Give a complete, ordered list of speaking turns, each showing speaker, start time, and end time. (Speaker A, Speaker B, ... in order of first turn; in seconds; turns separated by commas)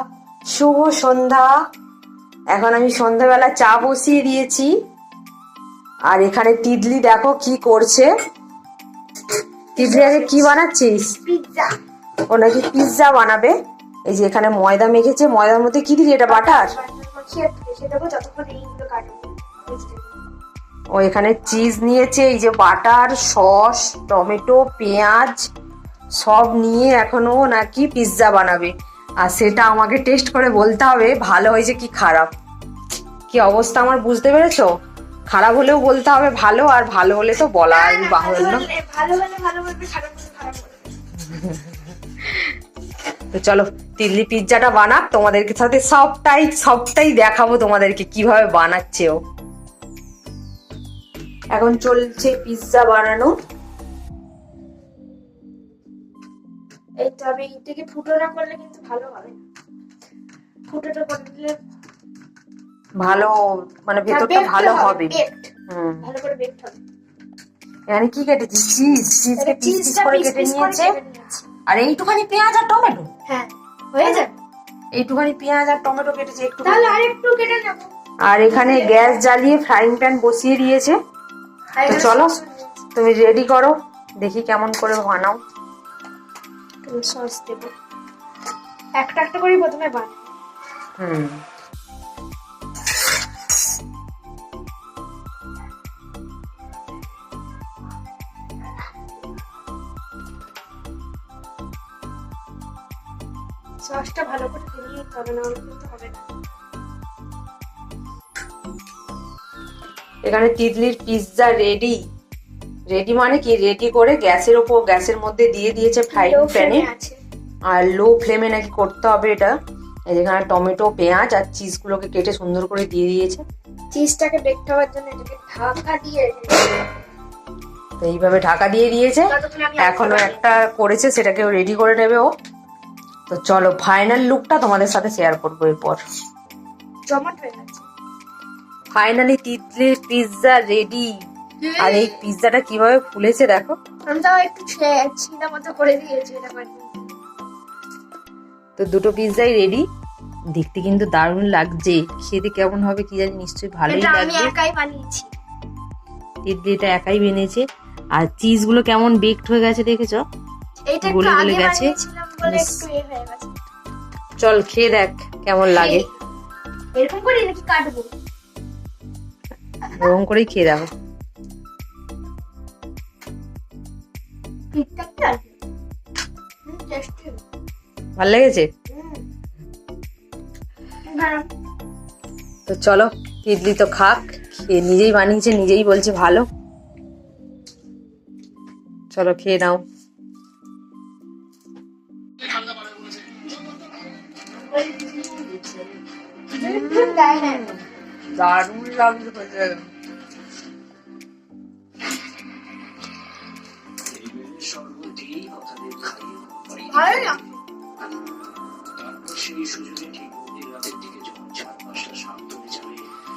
Speaker A: 0.5-1.5, Speaker A: 2.5-4.7, Speaker A: 6.1-8.1, Speaker B: 9.7-10.6, Speaker A: 9.8-11.2, Speaker B: 11.2-11.8, Speaker A: 12.3-13.5, Speaker A: 14.1-16.7, Speaker B: 16.3-20.1, Speaker A: 20.9-25.4, Speaker A: 26.2-28.7, Speaker A: 29.2-32.3, Speaker A: 33.3-34.7, Speaker A: 35.3-38.7, Speaker B: 37.7-40.9, Speaker A: 41.2-41.6, Speaker A: 43.3-49.2, Speaker A: 51.5-53.3, Speaker B: 57.0-59.4, Speaker B: 60.7-61.6, Speaker A: 63.0-63.3, Speaker A: 63.9-65.2, Speaker B: 64.1-65.5, Speaker A: 65.7-66.1, Speaker B: 66.0-66.8, Speaker A: 67.9-70.9, Speaker B: 69.4-71.5, Speaker A: 71.7-73.0, Speaker B: 73.3-74.3, Speaker A: 74.9-77.0, Speaker B: 76.6-77.9, Speaker A: 78.2-81.0, Speaker B: 78.5-79.2, Speaker B: 81.8-82.7, Speaker A: 81.8-82.4, Speaker A: 82.9-85.4, Speaker B: 86.8-87.7, Speaker B: 89.0-90.3, Speaker A: 91.0-91.4, Speaker B: 103.8-106.3, Speaker A: 110.2-112.0, Speaker A: 112.9-116.9, Speaker B: 116.1-117.2, Speaker A: 117.7-119.5, Speaker A: 120.1-123.4, Speaker B: 123.9-127.0, Speaker A: 128.0-132.3, Speaker B: 129.3-130.4, Speaker A: 133.3-136.0, Speaker B: 137.1-137.8, Speaker A: 138.9-141.1, Speaker B: 141.6-142.2, Speaker A: 141.8-143.8, Speaker B: 144.0-147.1, Speaker A: 148.8-149.8, Speaker A: 150.5-154.5, Speaker B: 153.9-155.3, Speaker A: 156.4-157.6, Speaker A: 158.2-160.2, Speaker B: 160.9-163.6, Speaker A: 161.0-162.8, Speaker A: 164.4-166.0, Speaker B: 165.7-166.1, Speaker B: 166.9-168.1, Speaker A: 169.9-170.9, Speaker B: 174.7-175.5, Speaker B: 176.7-177.4, Speaker A: 178.2-178.7, Speaker B: 178.9-179.2, Speaker B: 181.0-181.5, Speaker A: 182.7-186.4, Speaker A: 189.1-189.8, Speaker B: 194.6-196.0, Speaker B: 196.5-197.7, Speaker A: 196.6-197.8, Speaker A: 198.3-199.8, Speaker C: 204.1-207.4, Speaker B: 206.8-207.6, Speaker C: 209.0-213.0